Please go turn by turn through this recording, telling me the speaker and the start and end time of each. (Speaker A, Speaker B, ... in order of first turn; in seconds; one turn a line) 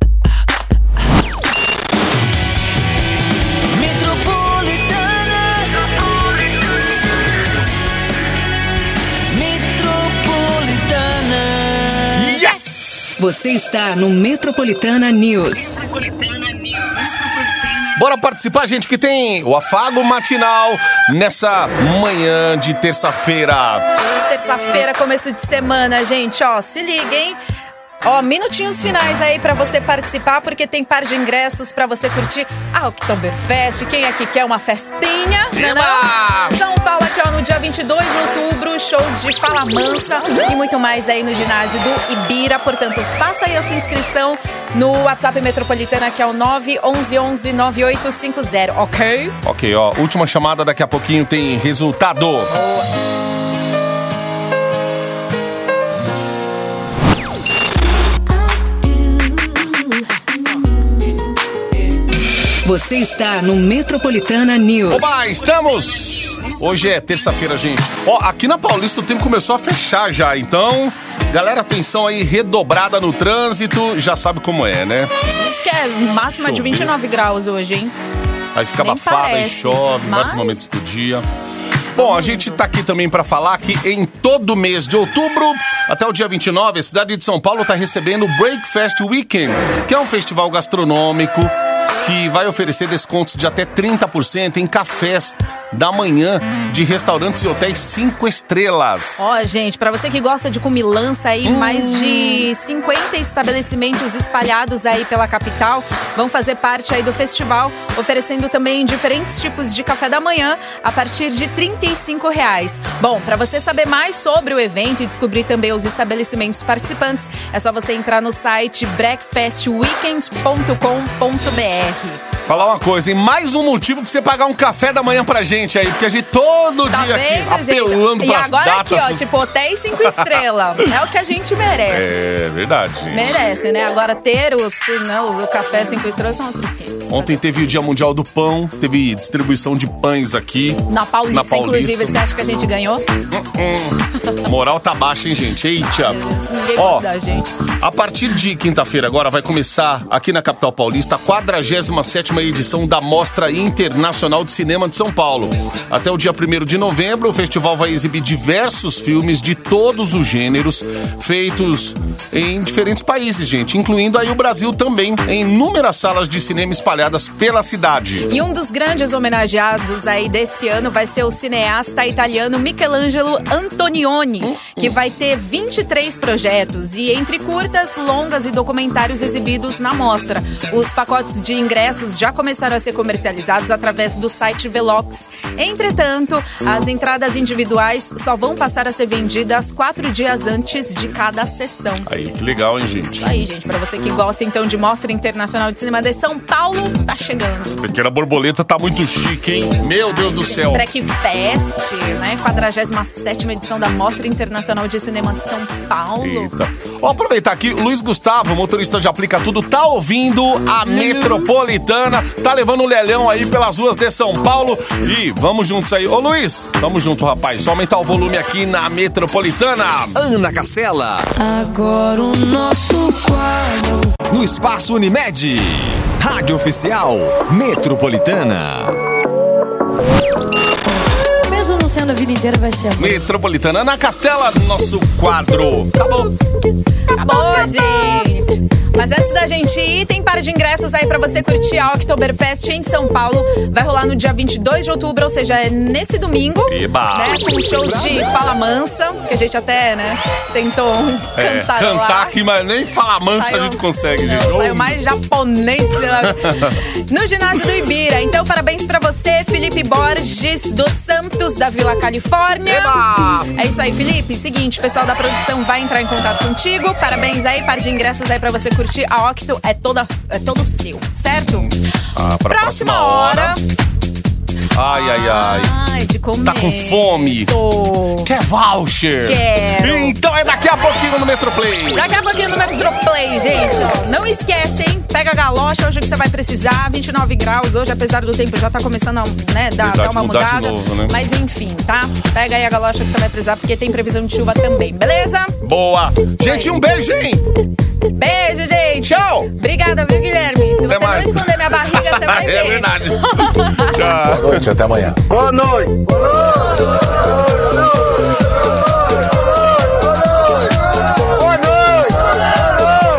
Speaker A: 3.7-6.6
Speaker A: 9.3-12.5
Speaker B: 12.1-13.2
Speaker C: 13.2-17.9
Speaker B: 17.9-23.9
Speaker D: 24.0-27.4
Speaker D: 28.0-49.4
Speaker B: 35.5-36.6
Speaker B: 49.4-52.5
Speaker C: 62.6-65.1
Speaker B: 64.9-75.1
Speaker D: 75.3-77.9
Speaker B: 76.4-76.9
Speaker B: 78.5-81.2
Speaker D: 78.8-80.7
Speaker B: 81.9-99.3
Speaker D: 82.0-82.6
Speaker D: 99.2-122.2
Speaker B: 101.4-102.5
Speaker B: 122.4-129.3
Speaker D: 126.9-132.1
Speaker B: 130.0-130.9
Speaker B: 131.9-133.4
Speaker D: 133.1-137.4
Speaker B: 137.1-142.2
Speaker D: 140.9-143.1
Speaker B: 143.3-146.2
Speaker D: 146.2-147.5
Speaker B: 146.7-147.1
Speaker B: 147.8-168.3
Speaker D: 168.3-192.1
Speaker B: 174.4-174.9
Speaker B: 192.1-193.3
Speaker D: 193.2-197.8
Speaker B: 197.7-200.9
Speaker D: 200.1-206.5
Speaker B: 206.2-220.2
Speaker D: 210.8-211.5
Speaker A: 220.1-221.3
Speaker E: 221.4-224.1
Speaker A: 224.3-229.0
Speaker E: 231.4-233.1
Speaker B: 233.0-236.3
Speaker D: 237.1-252.3
Speaker B: 246.7-248.2
Speaker B: 251.3-255.0
Speaker D: 253.3-271.7
Speaker B: 256.2-256.8
Speaker B: 262.6-263.6
Speaker B: 272.1-273.6
Speaker D: 272.4-273.6
Speaker B: 274.7-275.7
Speaker D: 274.8-278.3
Speaker B: 276.4-277.5
Speaker B: 278.2-282.2
Speaker D: 279.2-280.1
Speaker D: 281.9-295.6
Speaker B: 289.8-291.1
Speaker B: 295.6-297.4
Speaker D: 296.4-296.8
Speaker D: 298.1-304.1
Speaker B: 299.0-299.5
Speaker B: 300.8-304.9
Speaker E: 305.2-306.2